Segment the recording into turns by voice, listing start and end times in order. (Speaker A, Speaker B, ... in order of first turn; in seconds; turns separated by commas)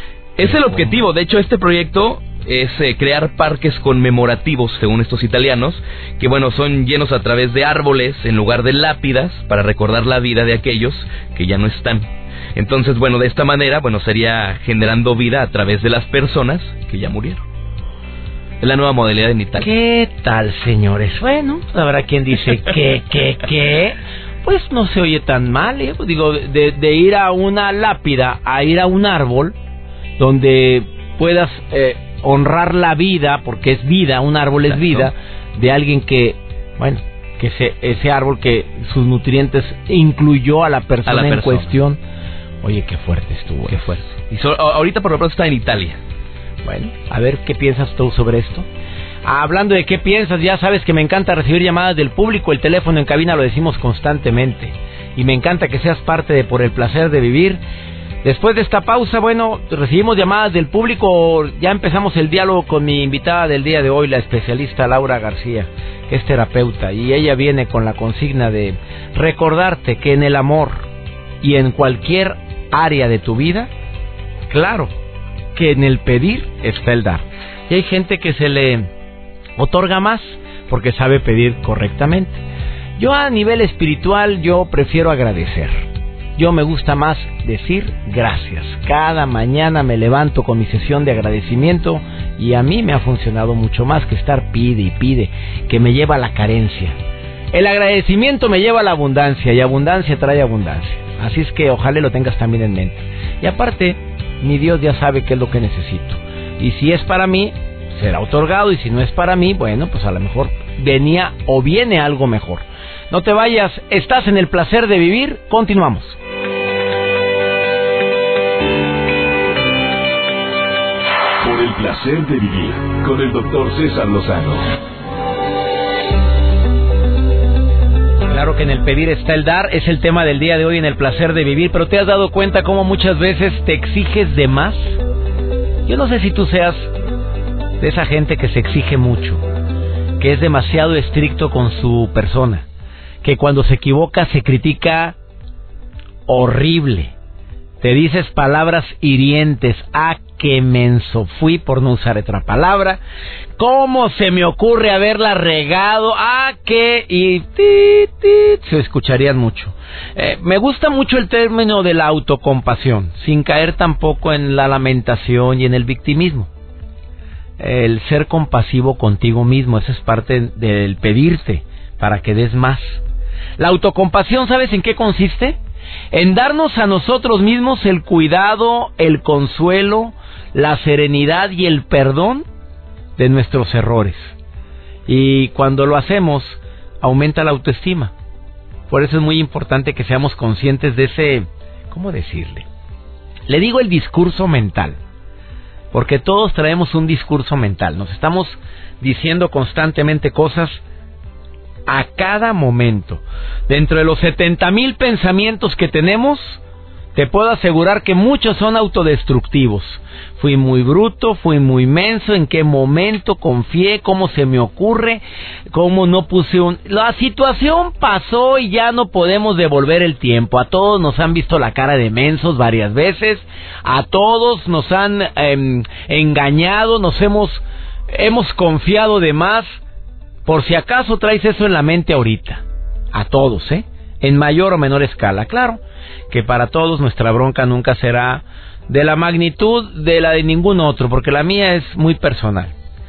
Speaker A: 0.4-17.4, Speaker B: 0.4-0.9, Speaker A: 18.6-19.7, Speaker B: 19.6-29.5, Speaker B: 30.2-42.0, Speaker A: 34.7-35.1, Speaker A: 41.0-41.7, Speaker B: 42.6-43.9, Speaker A: 43.7-46.0, Speaker B: 46.6-48.6, Speaker B: 49.2-57.6, Speaker B: 58.2-70.8, Speaker B: 71.4-73.7, Speaker B: 74.5-74.9, Speaker B: 75.5-78.9, Speaker B: 79.6-82.4, Speaker B: 83.0-97.0, Speaker B: 97.5-116.2, Speaker C: 121.4-124.6, Speaker B: 128.3-135.0, Speaker B: 135.9-136.9, Speaker B: 137.8-139.4, Speaker B: 140.2-142.6, Speaker B: 143.2-145.2, Speaker B: 146.3-147.1, Speaker B: 147.8-153.0, Speaker B: 153.6-166.5, Speaker B: 167.6-173.0, Speaker B: 173.6-175.6, Speaker B: 176.1-182.4, Speaker B: 183.2-184.3, Speaker B: 185.1-188.1, Speaker B: 188.9-192.7, Speaker B: 193.5-195.0, Speaker B: 195.9-200.8, Speaker B: 201.9-206.6, Speaker B: 207.1-229.8, Speaker B: 230.4-242.7